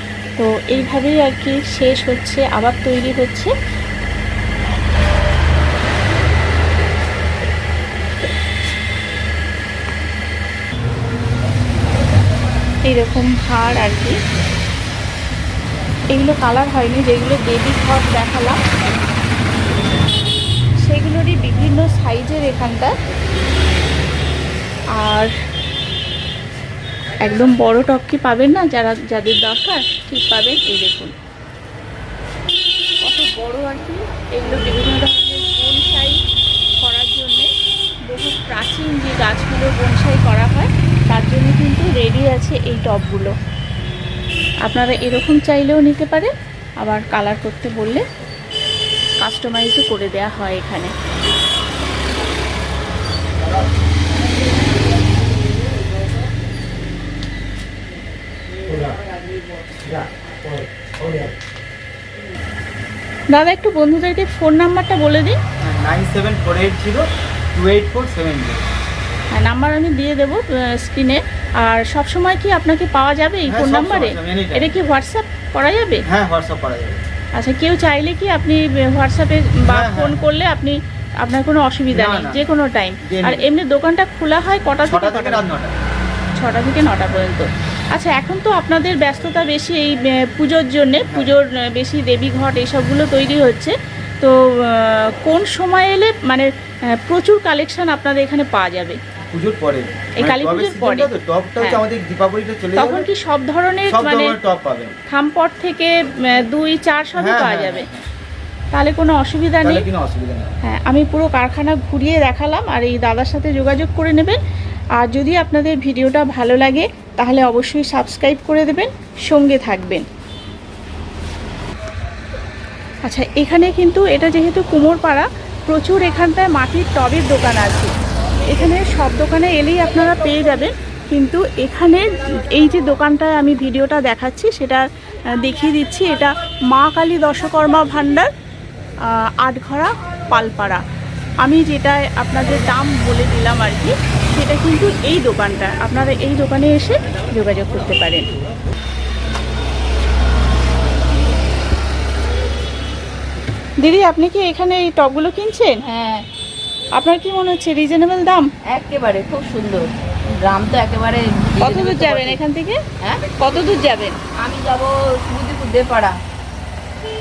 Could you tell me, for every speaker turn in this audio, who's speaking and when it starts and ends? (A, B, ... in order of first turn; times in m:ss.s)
0:00.4-0:03.5 A
0:12.9-0:14.2 A
0:16.1-0:18.6 A
0:20.8-0:22.9 A
0:25.0-0:25.3 A
0:27.2-0:31.1 A
0:33.0-0:36.2 A
0:36.8-0:37.5 A
0:38.1-0:43.3 A
0:44.6-0:46.3 A
0:46.8-0:48.0 A
0:49.2-0:50.9 A
0:54.5-0:55.8 B
0:58.6-1:00.0 B
0:58.7-0:59.0 C
1:00.6-1:01.3 C
1:03.3-1:05.4 A
1:05.6-1:08.7 C
1:09.3-1:16.0 A
1:13.5-1:14.7 C
1:16.1-1:17.0 C
1:17.4-1:25.4 A
1:19.7-1:20.2 C
1:21.9-1:22.4 C
1:23.0-1:23.5 C
1:24.9-1:25.8 C
1:26.4-1:39.0 A
1:31.1-1:31.3 C
1:39.3-1:43.1 C
1:40.2-1:41.8 A
1:42.8-1:44.4 A
1:43.9-1:45.0 C
1:45.1-1:47.9 A
1:47.2-1:48.0 C
1:48.7-1:49.9 A
1:49.6-1:50.6 C
1:50.6-1:54.4 A
1:55.0-2:00.0 A
2:03.0-2:07.9 A
2:08.4-2:14.8 A
2:15.4-2:18.3 A
2:19.1-2:20.8 A
2:21.4-2:28.3 A
2:33.8-2:35.8 A
2:35.8-2:36.3 B
2:37.0-2:38.5 A
2:38.7-2:42.4 B
2:41.6-2:42.8 A
2:43.0-2:43.4 B
2:43.4-2:44.2 A
2:44.4-2:46.2 B